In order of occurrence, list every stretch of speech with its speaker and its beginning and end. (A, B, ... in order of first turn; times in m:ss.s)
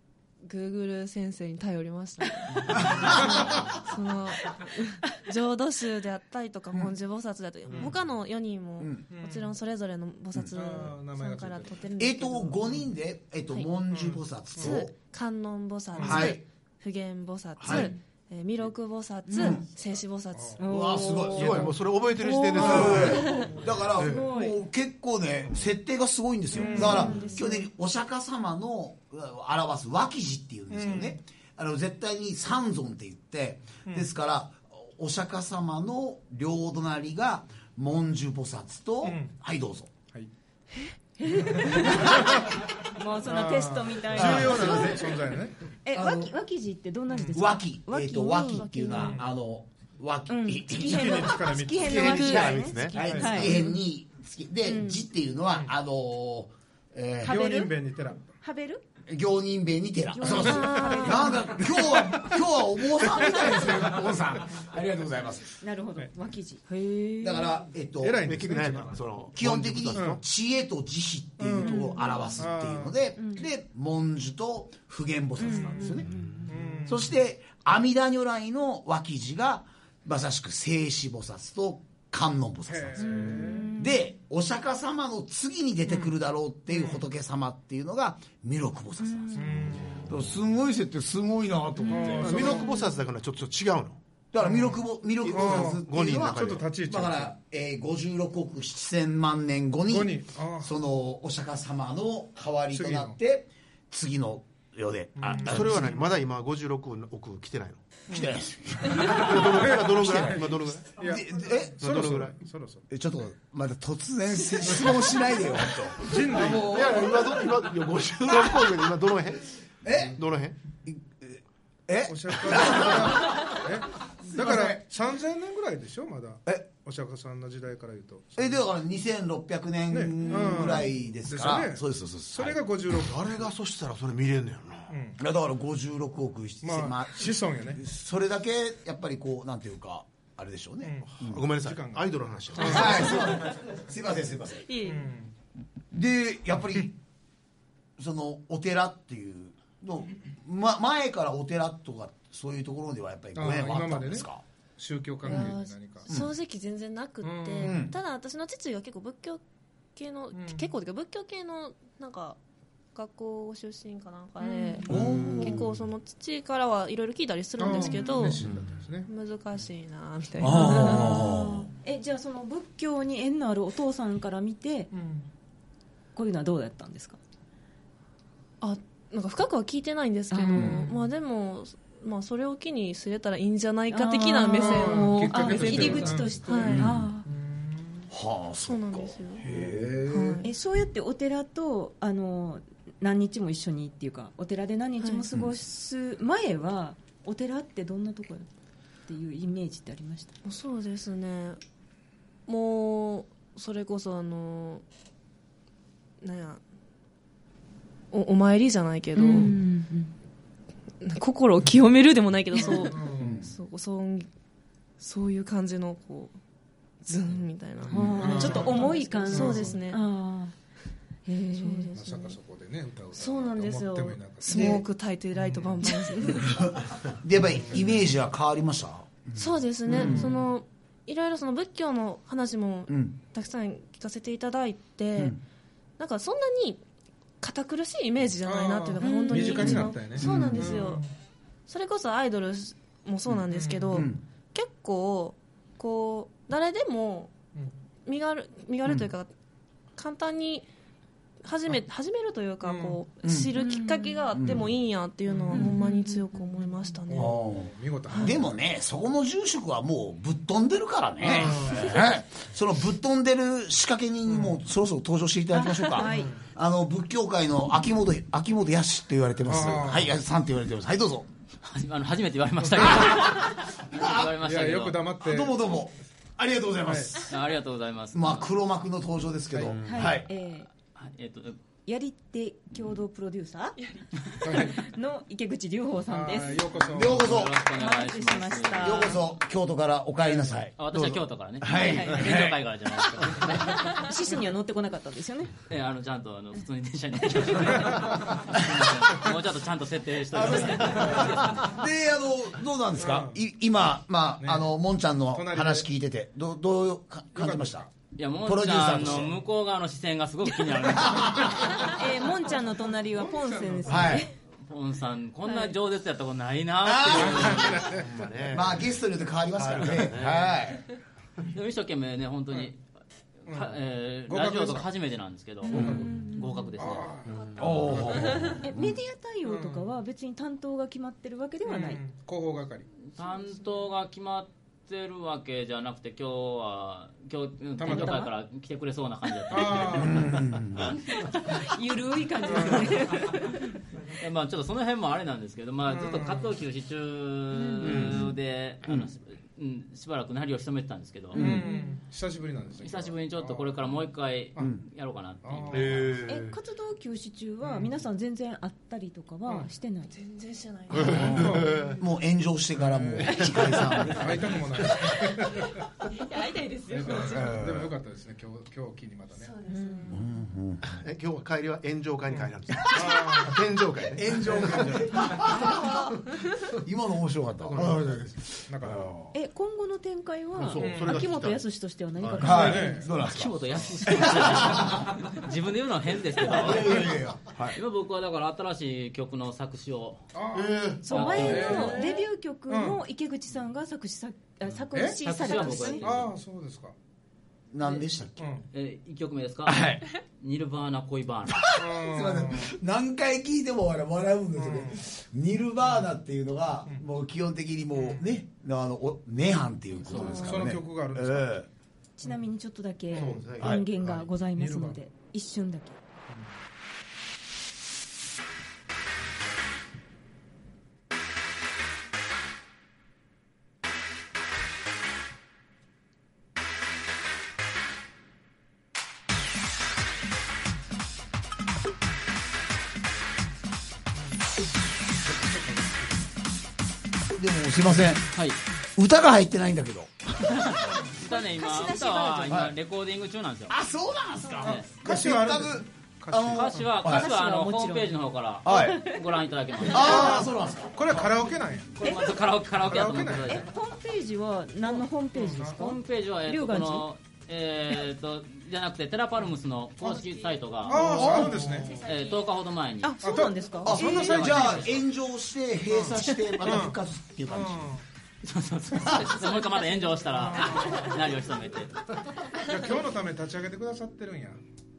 0:00.4-0:12.6 A
0:02.6-0:03.6 B
0:03.1-0:03.5 C
0:08.8-0:09.0 B
0:09.1-0:09.6 C
0:10.3-0:10.9 B
0:10.5-0:11.9 C
0:12.0-0:14.9 B
0:13.9-0:14.8 C
0:14.6-0:20.6 A
0:15.9-0:16.4 C
0:16.0-0:16.4 B
0:17.6-0:17.9 B
0:19.3-0:19.6 D
0:19.4-0:19.6 B
0:20.3-0:20.6 C
0:20.6-0:24.6 D
0:20.6-0:21.7 B
0:21.4-0:23.3 E
0:22.6-0:39.9 B
0:22.6-0:23.6 C
0:23.2-0:23.5 A
0:24.0-0:24.2 E
0:26.5-0:27.6 D
0:26.6-0:27.6 A
0:26.6-0:27.2 C
0:30.7-0:31.2 C
0:39.0-0:39.4 C
0:41.2-0:45.1 D
0:41.4-0:42.6 C
0:43.2-0:45.6 C
0:44.1-0:45.2 B
0:45.8-0:49.2 D
0:45.9-0:46.4 B
0:47.1-0:47.4 C
0:47.3-0:51.5 B
0:48.6-0:49.1 A
0:48.9-0:49.3 C
0:50.3-0:53.8 D
0:50.8-0:53.6 C
0:51.8-0:53.0 E
0:52.1-0:52.6 A
0:52.9-0:57.4 B
0:54.6-0:55.0 D
0:57.2-0:57.8 D
0:57.2-0:58.3 C
0:58.3-0:58.8 D
0:59.0-1:05.6 B
1:00.1-1:01.5 D
1:00.3-1:01.3 A
1:01.6-1:02.4 C
1:03.0-1:04.1 C
1:03.2-1:03.7 D
1:05.6-1:07.6 D
1:07.2-1:08.4 B
1:08.0-1:09.3 C
1:08.2-1:10.2 E
1:09.3-1:16.1 B
1:09.9-1:10.2 C
1:11.4-1:13.0 C
1:11.6-1:12.4 D
1:13.2-1:13.5 D
1:15.4-1:16.5 D
1:16.1-1:16.5 E
1:16.5-1:17.2 C
1:16.9-1:32.6 B
1:22.7-1:23.7 C
1:23.0-1:24.0 D
1:25.9-1:26.1 C
1:26.7-1:27.0 C
1:29.0-1:29.6 D
1:29.4-1:30.1 C
1:31.8-1:32.7 D
1:31.9-1:32.9 C
1:32.2-1:34.0 E
1:34.3-1:46.0 B
1:34.4-1:37.3 C
1:35.2-1:36.7 E
1:39.9-1:40.7 C
1:42.7-1:43.2 C
1:45.2-1:46.0 C
1:45.3-1:47.8 E
1:48.1-1:50.4 B
1:48.1-1:48.4 C
1:48.9-1:51.0 E
1:48.9-1:52.9 C
1:51.0-1:51.8 B
1:51.8-1:52.4 E
1:52.9-1:57.5 B
1:54.7-1:55.0 C
1:55.6-1:56.8 C
1:56.6-1:59.5 E
1:58.3-1:58.8 B
1:59.8-2:00.2 B
2:00.0-2:00.6 E
2:00.8-2:03.6 B
2:02.0-2:08.6 C
2:04.2-2:04.8 B
2:08.4-2:12.6 B
2:09.9-2:13.4 C
2:13.0-2:14.9 E
2:14.9-2:15.2 C
2:15.2-2:21.5 B
2:16.6-2:17.8 C
2:20.8-2:23.5 C
2:21.2-2:23.2 E
2:22.5-2:24.7 B
2:24.6-2:25.1 A
2:24.8-2:25.3 C
2:25.9-2:27.0 B
2:28.0-2:34.4 B
2:33.4-2:36.1 C
2:35.2-2:39.4 A
2:35.2-2:35.5 B
2:36.1-2:36.3 B
2:37.2-2:37.9 C
2:37.6-2:38.0 B
2:40.0-2:42.4 A
2:40.3-2:40.7 C
2:42.9-2:48.4 A
2:44.4-2:44.9 D
2:44.9-2:45.7 B
2:44.9-2:45.2 E
2:47.6-2:49.1 C
2:48.4-2:48.8 E
2:49.0-2:51.3 A
2:50.4-2:51.7 B
2:50.5-2:54.9 D
2:54.9-2:55.3 C
2:56.1-2:57.2 D
2:58.6-3:06.9 A
3:00.3-3:00.8 D
3:03.9-3:07.3 D
3:04.6-3:08.1 C
3:06.6-3:07.1 B
3:08.1-3:10.4 B
3:08.6-3:09.5 A
3:09.4-3:10.2 C
3:10.1-3:10.5 A
3:10.4-3:18.5 D
3:19.1-3:20.4 D
3:20.4-3:21.6 A
3:22.5-3:24.8 A
3:26.2-3:26.6 A
3:28.1-3:29.5 A
3:29.1-3:30.1 D
3:31.0-3:34.3 A
3:32.6-3:32.9 D
3:32.6-3:33.5 C
3:33.2-3:33.5 B
3:35.0-3:36.4 A
3:37.0-3:40.0 A
3:37.9-3:39.7 C
3:37.9-3:40.5 D
3:37.9-3:38.3 B
3:41.3-3:41.9 D
3:41.6-3:42.4 A
3:41.9-3:44.8 C
3:43.1-3:46.7 A
3:44.5-3:44.8 B
3:45.4-3:45.9 C
3:46.4-3:50.4 B
3:47.5-3:48.0 C
3:49.4-3:55.4 A
3:49.9-3:50.4 C
3:52.9-3:53.2 B
3:56.0-3:56.8 A
3:57.4-4:01.0 A
3:58.4-4:01.1 C
3:59.0-3:59.8 D
3:59.6-4:00.9 B
4:01.7-4:07.4 A
4:03.3-4:04.2 B
4:03.5-4:04.0 C
4:08.1-4:09.3 A
4:10.0-4:10.7 A
4:11.4-4:17.4 A
4:12.6-4:13.0 C
4:13.2-4:13.5 B
4:13.6-4:14.3 D
4:14.3-4:14.8 B
4:15.3-4:15.7 C
4:15.5-4:16.9 D
4:17.1-4:18.6 C
4:17.1-4:31.3 B
4:18.1-4:18.4 A
4:21.2-4:22.0 C
4:24.3-4:24.6 C
4:25.5-4:26.3 D
4:26.0-4:26.4 C
4:29.4-4:30.1 C
4:31.6-4:35.0 F
4:32.6-4:33.3 C
4:32.8-4:34.3 B
4:34.4-4:35.6 C
4:35.2-4:37.3 B
4:36.8-4:37.2 C
4:37.2-4:38.4 F
4:38.1-4:40.3 B
4:39.5-4:39.8 C
4:39.8-4:40.7 D
4:41.0-4:41.6 F
4:41.9-4:43.8 D
4:43.8-4:44.2 A
4:44.4-4:46.8 D
4:44.4-4:44.9 C
4:46.1-4:47.6 C
4:46.9-4:47.6 B
4:47.1-4:49.2 F
4:47.7-4:49.2 D
4:48.8-4:50.8 B
4:50.3-4:50.5 C
4:50.8-4:54.0 F
4:50.9-4:51.2 E
4:51.6-4:52.7 B
4:51.7-4:52.3 D
4:53.9-4:55.5 D
4:55.7-5:01.7 F
4:57.4-4:57.8 D
4:57.7-4:58.2 C
4:58.5-4:58.9 B
5:00.3-5:07.9 B
5:03.0-5:03.4 C
5:04.4-5:04.7 C
5:05.3-5:05.9 C
5:07.3-5:07.9 C
5:08.2-5:11.9 F
5:08.4-5:09.4 B
5:10.9-5:11.8 B
5:11.8-5:14.3 D
5:13.0-5:14.2 C
5:13.9-5:14.3 B
5:14.6-5:17.9 F
5:15.4-5:15.7 D
5:16.8-5:17.9 B
5:17.1-5:18.3 C
5:18.0-5:18.9 E
5:18.5-5:20.9 B
5:19.6-5:20.6 E
5:21.5-5:22.9 F
5:23.4-5:27.1 F
5:23.5-5:24.9 C
5:25.6-5:26.8 D
5:25.7-5:26.1 B
5:25.7-5:26.1 C
5:26.8-5:28.6 C
5:27.3-5:28.4 E
5:27.4-5:28.5 A
5:27.6-5:29.0 B
5:28.6-5:32.0 D
5:29.4-5:29.9 C
5:31.6-5:32.9 C
5:33.0-5:40.4 F
5:37.8-5:38.3 C
5:37.8-5:38.3 D
5:39.5-5:40.5 C
5:40.0-5:40.9 B
5:41.0-5:43.8 D
5:42.4-5:43.1 C
5:44.2-5:51.6 F
5:45.9-5:46.5 C
5:47.5-5:48.2 D
5:47.8-5:48.3 E
5:51.3-5:51.7 B
5:51.3-5:53.7 C
5:51.4-5:52.0 D
5:52.8-5:56.0 F
5:55.4-5:56.3 C
5:55.7-5:56.5 E
5:56.2-6:00.1 D
5:57.6-5:58.0 C
6:00.1-6:01.8 A
6:00.9-6:04.9 B
6:01.0-6:02.0 C
6:01.2-6:01.9 E
6:02.8-6:05.8 C
6:03.2-6:04.0 E
6:06.1-6:07.6 A
6:06.9-6:09.5 C
6:07.3-6:07.9 B
6:09.4-6:10.2 A
6:09.7-6:10.1 D
6:10.1-6:10.8 B
6:10.8-6:15.3 E
6:12.3-6:13.6 C
6:12.8-6:13.2 B
6:14.1-6:16.2 B
6:14.4-6:15.3 C
6:15.6-6:16.4 A
6:16.7-6:19.4 B
6:17.6-6:18.0 E
6:17.7-6:19.1 C
6:19.3-6:23.1 D
6:20.6-6:21.6 E
6:20.8-6:21.4 C
6:22.2-6:22.6 E
6:22.4-6:25.2 B
6:22.4-6:23.1 C
6:23.1-6:30.2 F
6:23.7-6:24.0 C
6:26.4-6:27.8 B
6:30.3-6:32.1 C
6:30.5-6:31.1 E
6:31.0-6:36.1 D
6:31.0-6:32.1 F
6:32.7-6:33.0 C
6:34.9-6:36.9 C
6:35.2-6:36.3 F
6:37.7-6:38.4 B
6:37.8-6:38.1 F
6:38.4-6:38.6 C
6:38.7-6:41.6 F
6:39.6-6:40.1 B
6:41.5-6:51.7 B
6:41.8-6:42.7 C
6:44.6-6:45.0 C
6:45.8-6:46.1 C
6:47.9-6:48.3 C
6:50.0-6:51.6 C
6:50.1-6:50.6 A
6:52.2-6:56.0 D
6:52.2-6:52.5 C
6:53.1-6:55.0 C
6:53.1-6:53.8 E
6:53.6-6:53.8 B
7:15.3-7:16.2 C
7:17.3-7:18.3 B
7:18.3-7:18.6 F
7:19.0-7:20.8 B
7:20.4-7:23.8 F
7:21.1-7:22.7 D
7:22.5-7:22.7 B
7:23.7-7:27.3 B
7:24.6-7:24.9 F
7:24.6-7:27.0 C
7:26.6-7:30.4 F
7:27.0-7:28.1 D
7:28.6-7:29.1 B
7:28.7-7:29.2 D
7:29.9-7:30.1 D
7:29.9-7:31.4 B
7:30.0-7:32.0 C
7:32.0-7:33.7 F
7:32.0-7:32.3 D
7:32.7-7:33.7 C
7:33.4-7:37.1 D
7:34.8-7:35.8 C
7:35.8-7:43.4 F
7:40.0-7:40.3 C
7:40.2-7:40.9 A
7:40.8-7:42.0 C
7:40.9-7:41.8 B
7:41.7-7:42.4 A
7:43.0-7:44.5 D
7:43.2-7:44.9 C
7:43.8-7:48.0 B
7:43.9-7:45.0 F
7:45.9-7:48.0 C
7:48.4-7:52.0 F
7:49.0-7:49.4 B
7:50.4-7:51.2 C
7:52.6-7:54.6 C